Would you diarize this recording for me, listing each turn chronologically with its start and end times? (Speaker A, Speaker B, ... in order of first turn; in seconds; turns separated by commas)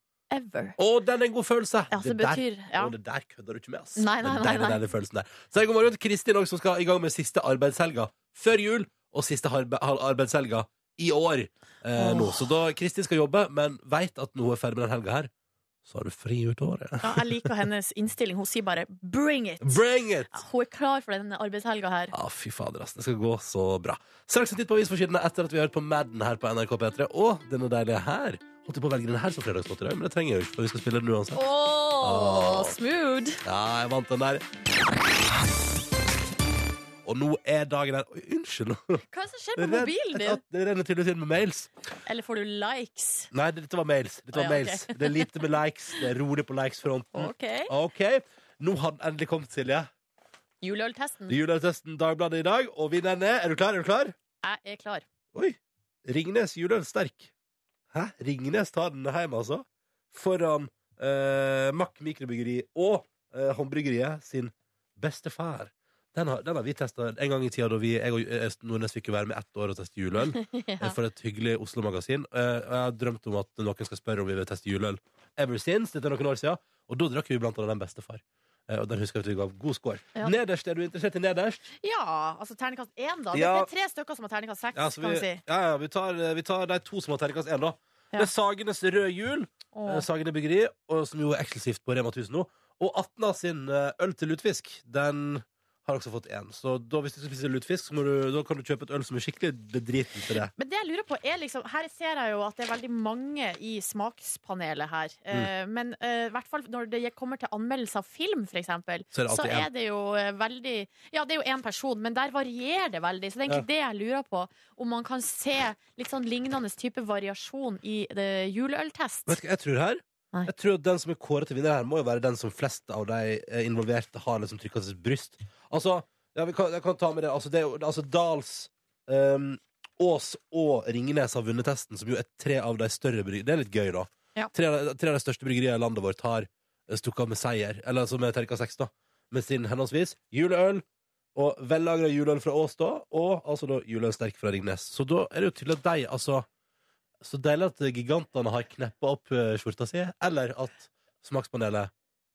Speaker A: 0.3-0.8, Speaker B: 0.8-15.3, Speaker A: 1.9-2.9, Speaker A: 4.0-4.8, Speaker A: 12.0-12.4, Speaker B: 15.8-17.6, Speaker A: 17.0-19.8, Speaker B: 19.6-20.3, Speaker A: 20.3-22.1, Speaker B: 22.1-31.4, Speaker A: 31.3-33.4, Speaker B: 32.0-32.8, Speaker B: 33.5-34.4, Speaker B: 37.0-39.0, Speaker A: 39.1-40.4, Speaker B: 39.6-41.7, Speaker A: 42.1-43.3, Speaker B: 43.3-49.9, Speaker A: 44.3-45.3, Speaker A: 47.1-47.7, Speaker A: 50.6-51.4, Speaker B: 51.3-54.1, Speaker A: 54.4-55.0, Speaker B: 55.3-57.3, Speaker B: 57.9-81.6, Speaker A: 70.3-71.0, Speaker A: 81.8-85.4, Speaker B: 83.3-83.7, Speaker B: 84.8-100.5, Speaker A: 89.7-90.0, Speaker A: 100.6-119.4, Speaker B: 109.1-109.7, Speaker B: 119.3-146.5, Speaker B: 147.2-151.9